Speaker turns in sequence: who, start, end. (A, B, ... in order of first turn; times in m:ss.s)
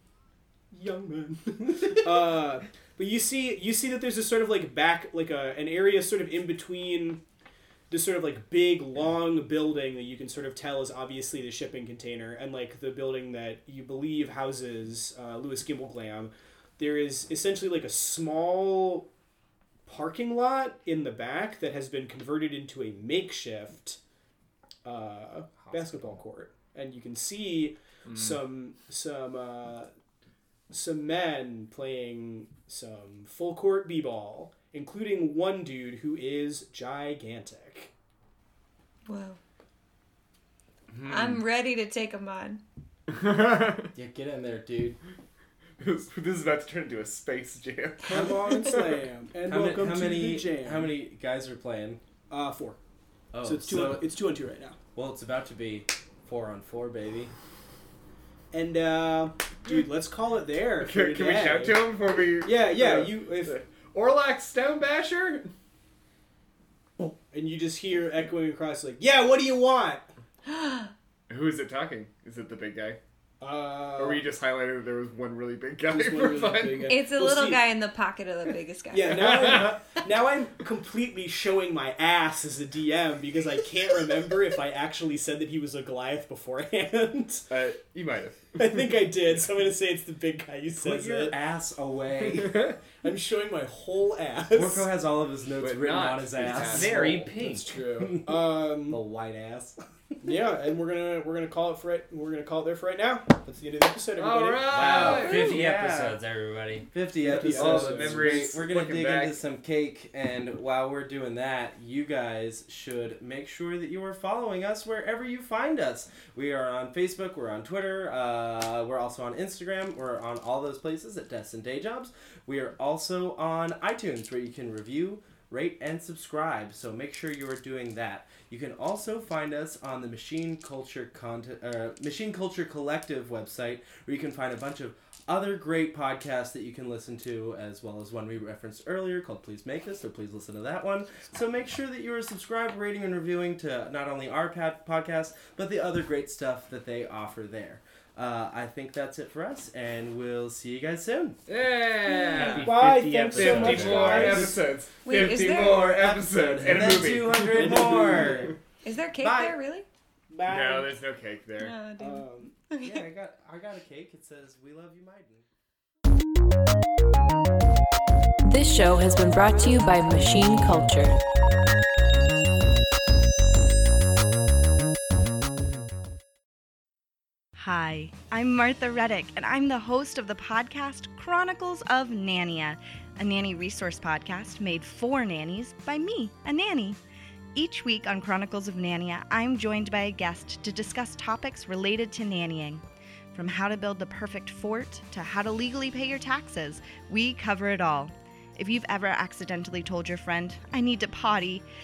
0:00.7-0:07.2 A
0:07.9-0:19.1 A
0:19.9-0:24.0 A
0:24.8-0:29.9 A
0:28.1-0:28.4 B
0:30.7-0:37.9 A
0:39.1-0:39.4 C
0:40.9-0:41.4 B
0:41.0-0:42.6 C
0:43.1-0:43.9 B
0:44.0-0:45.0 D
0:45.8-0:48.9 B
0:48.1-0:51.0 A
0:48.2-0:48.6 D
0:49.4-0:52.0 D
0:52.3-0:52.8 A
0:53.3-0:54.2 D
0:53.4-0:54.8 A
0:55.0-0:57.3 D
0:58.5-1:03.6 A
1:00.8-1:05.5 B
1:07.3-1:10.1 A
1:11.3-1:13.0 B
1:13.4-1:14.3 A
1:14.0-1:17.0 B
1:15.9-1:17.7 A
1:16.9-1:19.3 C
1:18.9-1:27.5 A
1:27.5-1:29.0 B
1:28.6-1:31.4 A
1:30.8-1:32.7 D
1:32.2-1:32.8 B
1:33.0-1:34.9 A
1:34.5-1:37.0 D
1:35.6-1:37.0 B
1:36.4-1:39.0 A
1:36.5-1:37.7 E
1:38.0-1:40.2 D
1:40.2-1:45.4 A
1:44.1-1:45.5 B
1:44.7-1:46.2 D
1:44.9-1:46.9 E
1:45.2-1:45.6 C
1:46.9-2:31.4 D
1:47.2-1:48.5 A
1:47.4-1:49.4 B
2:31.5-2:37.7 B
2:32.1-2:32.6 C
2:32.4-2:34.5 E
2:32.5-2:34.7 A
2:33.4-2:34.4 D
2:35.0-2:36.0 C
2:35.7-2:38.6 D
2:37.3-2:38.6 A
2:38.8-2:39.9 C
2:39.2-2:39.6 D
2:40.3-2:41.0 A
2:40.5-2:41.8 B
2:41.6-2:43.1 C
2:41.9-2:42.6 A
2:42.8-2:45.4 D
2:48.5-2:51.2 F
2:57.6-3:07.0 G
3:07.6-3:12.8 G
3:13.3-3:21.6 G